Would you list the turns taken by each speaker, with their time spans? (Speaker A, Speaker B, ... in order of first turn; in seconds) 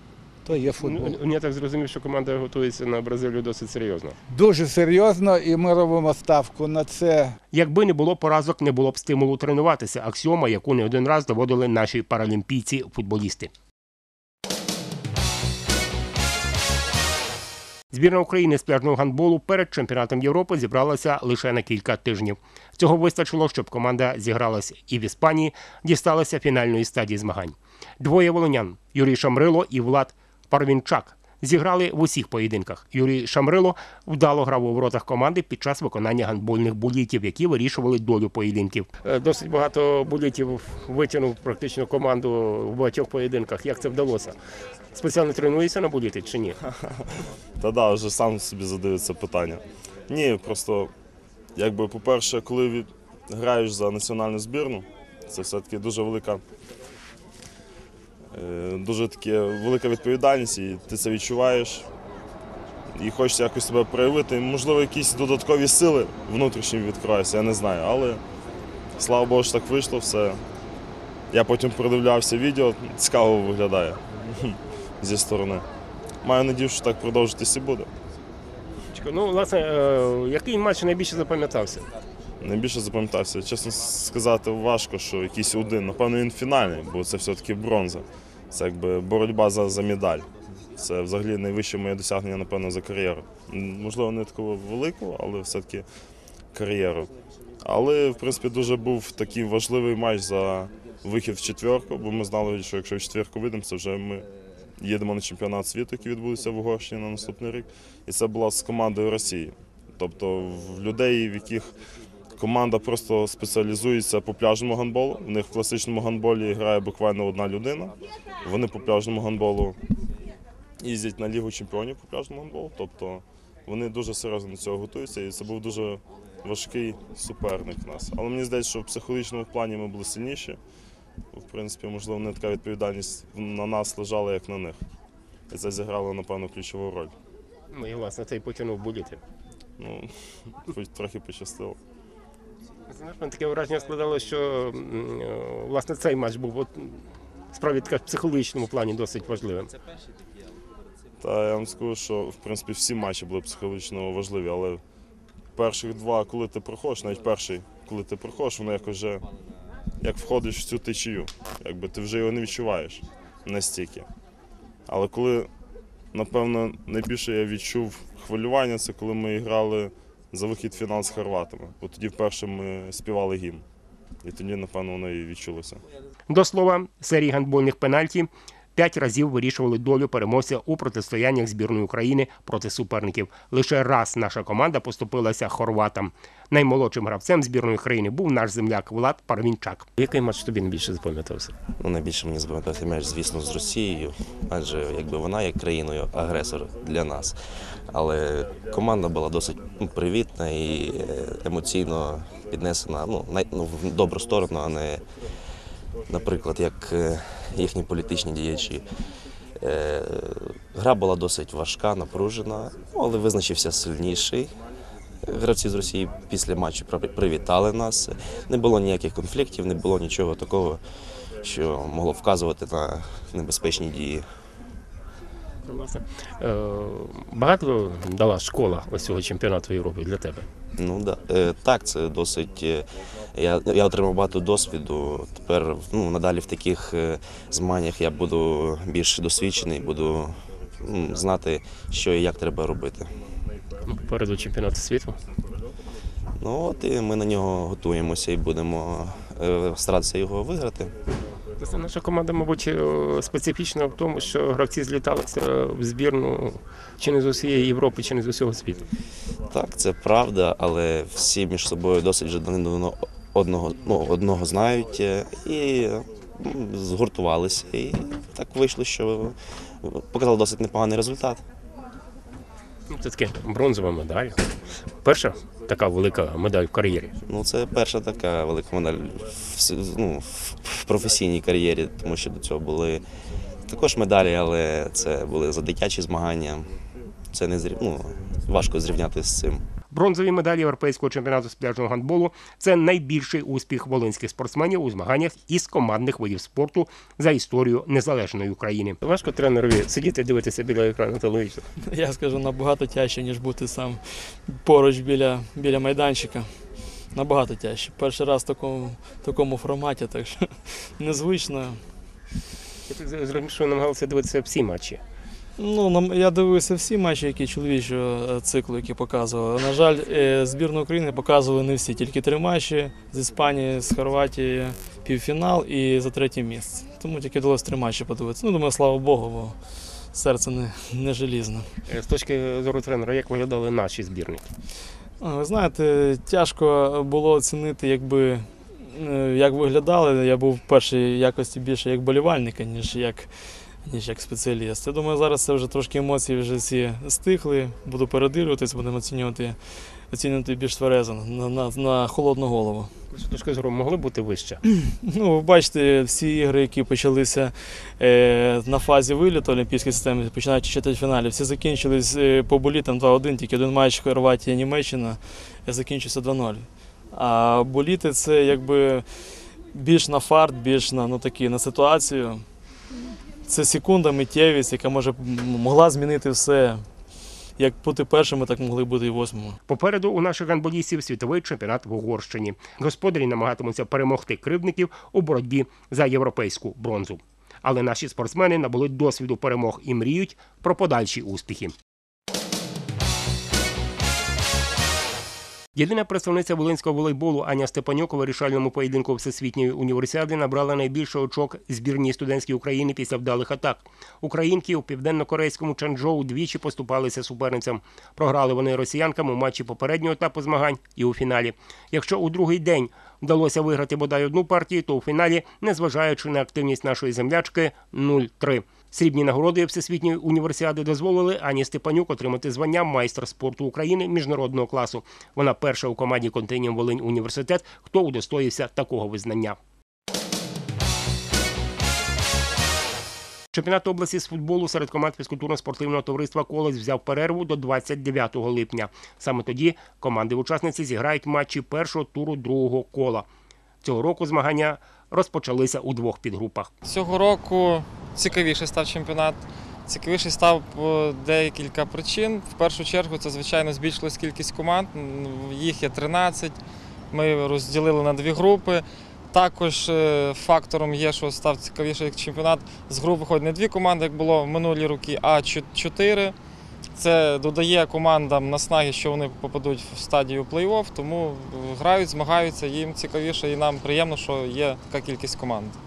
Speaker A: 0.5-1.2, 4.3-7.4
Speaker B: 0.6-4.2, 7.5-13.5, 17.9-44.4, 44.9-46.6, 78.9-81.8, 137.7-139.2, 142.9-147.0, 147.5-149.7, 176.3-191.5, 225.7-230.5, 243.9-245.2, 251.6-258.8, 272.9-274.4, 275.0-277.1, 289.9-301.6, 312.9-315.0, 331.9-334.5, 353.1-354.6, 379.7-391.7, 395.7-429.6, 433.5-443.3, 443.8-446.7
Speaker C: 47.6-50.9, 51.5-56.4, 58.3-61.9, 63.0-68.2, 69.0-70.4, 71.3-75.7, 76.2-77.9, 82.4-95.8, 96.5-97.1, 97.6-104.2, 104.8-111.7, 112.3-119.8, 120.8-130.6, 131.3-134.8, 135.5-137.1, 139.8-141.8, 151.2-154.8, 155.6-159.2, 160.0-164.1, 164.9-165.5, 166.1-173.6, 174.2-175.8
Speaker D: 191.8-197.4, 197.9-205.0, 206.1-208.8, 209.6-214.5, 215.2-220.8, 221.4-224.2, 230.8-243.1, 246.4-250.9, 259.5-271.4, 277.2-283.0, 283.6-286.7, 287.3-289.6
Speaker E: 301.9-306.5, 307.1-310.5, 311.0-311.8, 315.6-329.6, 330.1-331.7, 335.2-343.3, 343.8-349.6, 350.1-352.9, 355.0-369.0, 369.7-372.4, 373.5-376.8, 377.6-379.6
Speaker F: 446.8-456.6, 457.1-466.3, 466.9-475.8